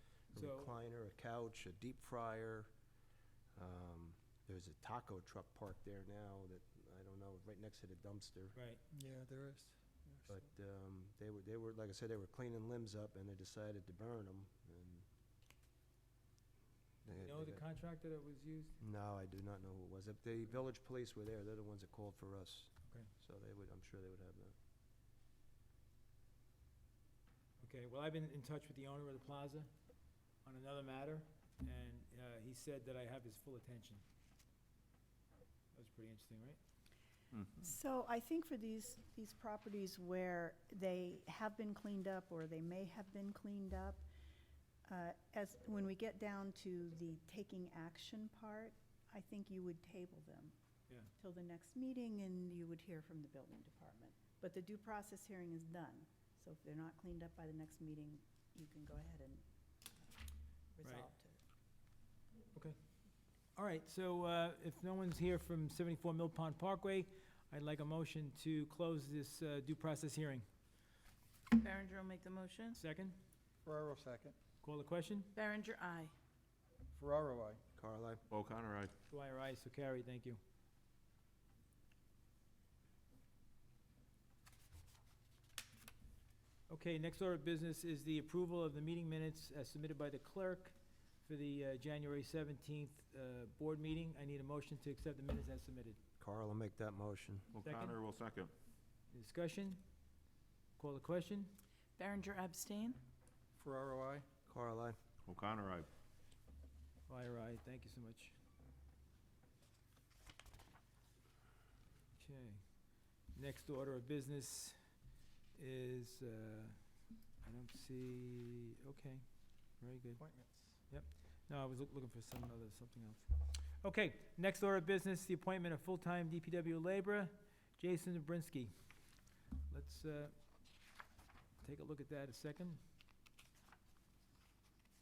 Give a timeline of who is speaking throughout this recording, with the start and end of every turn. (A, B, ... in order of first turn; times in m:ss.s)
0:00.3-0:02.7 A
0:00.3-0:00.8 B
0:03.6-0:08.6 A
0:08.6-0:08.8 B
0:08.9-0:09.7 C
0:10.3-0:15.1 A
0:17.0-0:17.6 A
0:17.2-0:18.8 B
0:18.8-0:24.6 A
0:27.6-0:29.7 B
0:30.4-0:34.0 B
0:35.7-0:36.6 B
0:37.6-0:44.0 D
0:44.8-0:50.6 D
0:51.2-0:59.4 D
1:00.7-1:01.4 D
1:00.8-1:01.1 B
1:03.6-1:10.5 B
1:11.6-1:12.8 E
1:12.8-1:13.2 B
1:13.7-1:14.3 C
1:14.6-1:15.3 B
1:15.4-1:16.1 E
1:17.0-1:17.6 C
1:17.8-1:18.2 A
1:18.3-1:18.9 F
1:19.1-1:20.4 B
1:26.7-1:36.0 B
1:36.2-1:37.5 A
1:37.5-1:38.5 F
1:37.6-1:38.0 B
1:39.1-1:39.8 B
1:40.8-1:41.5 B
1:42.0-1:43.0 E
1:43.6-1:44.2 C
1:44.5-1:45.0 A
1:45.3-1:45.9 F
1:47.1-1:48.3 B
1:52.2-1:52.6 B
1:53.3-1:54.8 B
1:55.6-1:56.8 B
1:57.4-1:59.2 B
1:59.8-2:00.2 B
2:00.2-2:00.6 C
2:00.9-2:03.3 B
2:03.8-2:08.7 B
2:09.7-2:10.3 B
2:11.6-2:12.8 B